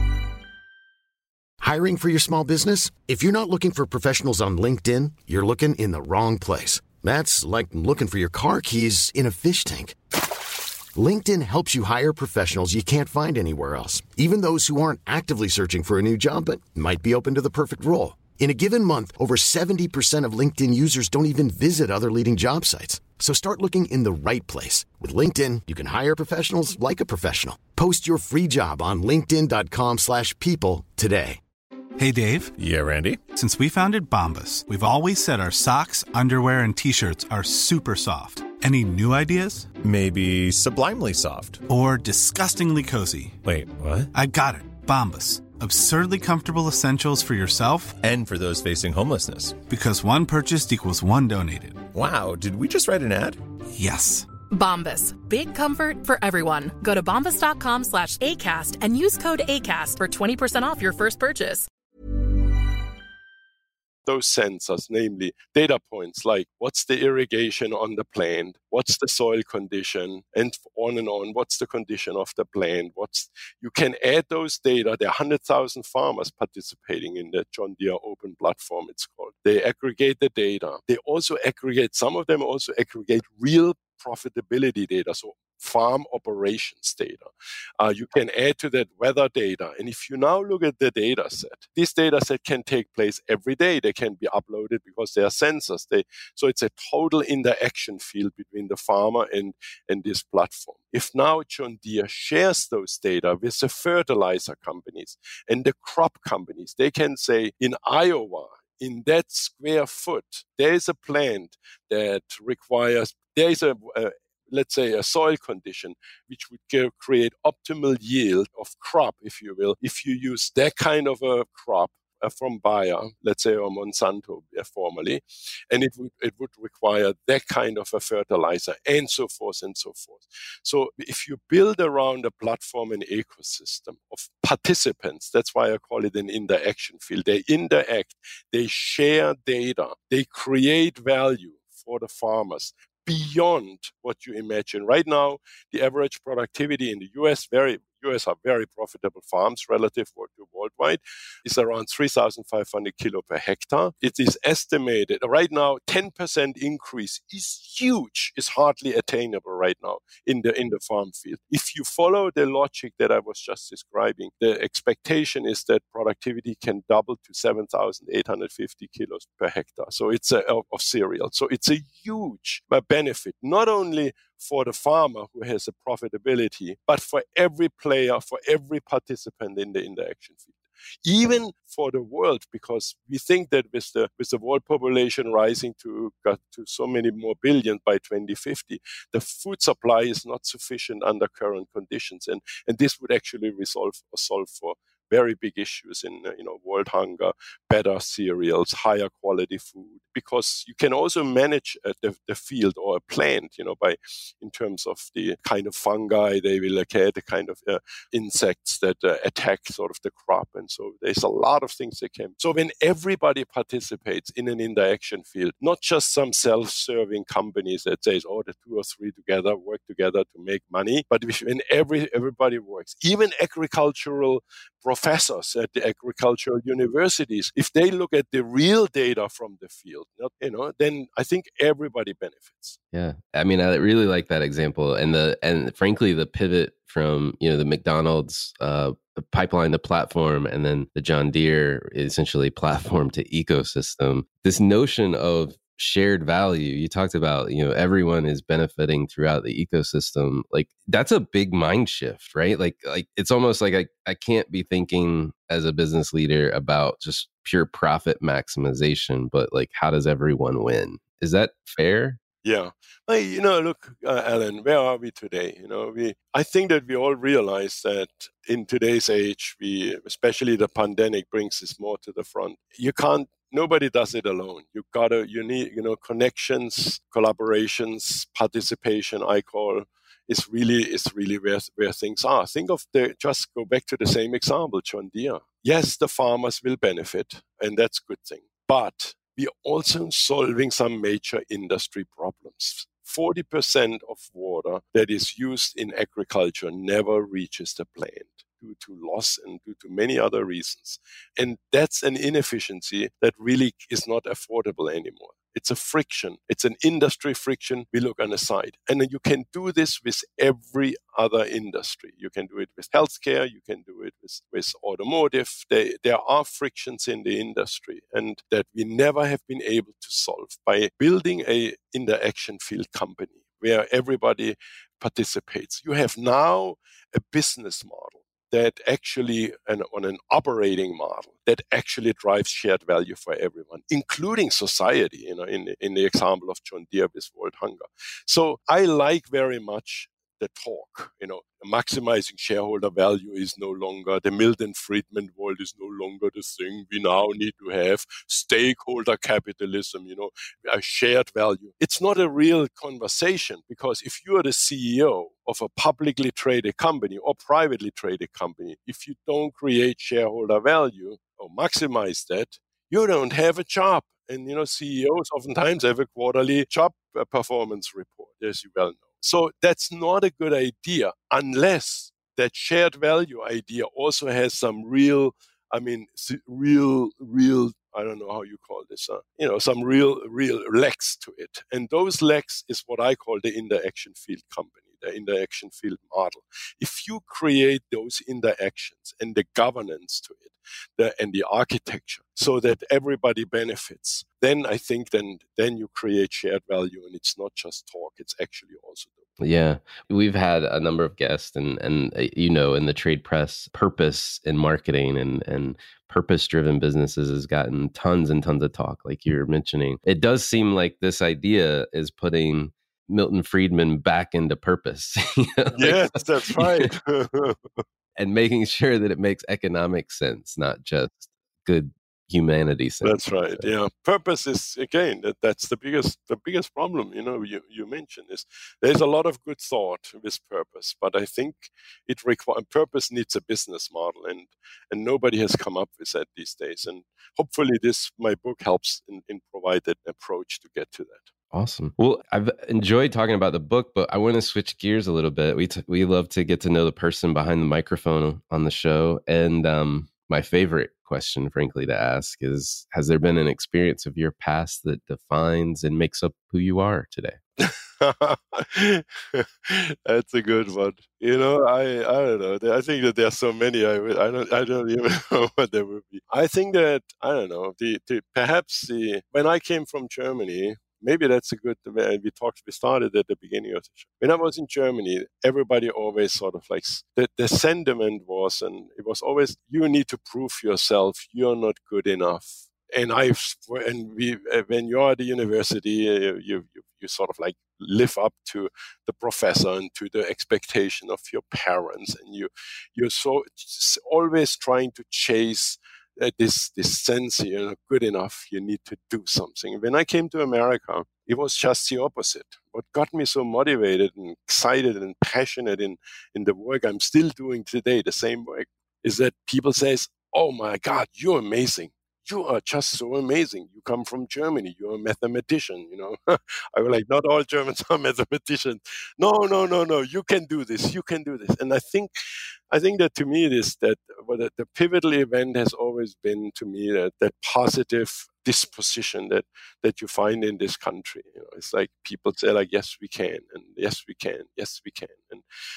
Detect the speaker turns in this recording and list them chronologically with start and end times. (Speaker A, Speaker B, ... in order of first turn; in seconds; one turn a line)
Speaker A: 1.6-10.0
Speaker A: 10.9-31.4
Speaker B: 32.0-32.5
Speaker C: 32.6-33.3
Speaker B: 33.3-39.7
Speaker C: 39.8-41.6
Speaker B: 41.7-43.4
Speaker C: 43.5-44.1
Speaker B: 44.1-47.9
Speaker C: 48.0-49.6
Speaker B: 49.6-51.8
Speaker C: 51.9-53.4
Speaker B: 53.8-54.3
Speaker D: 54.5-61.7
Speaker E: 64.1-180.5
Speaker E: 181.1-232.8
Speaker F: 232.9-262.2
Speaker E: 262.4-399.2
Speaker F: 399.4-416.9
Speaker E: 415.7-417.6
Speaker F: 418.2-423.6
Speaker E: 423.0-441.3
Speaker F: 441.5-457.4
Speaker E: 457.6-522.1
Speaker E: 522.7-535.4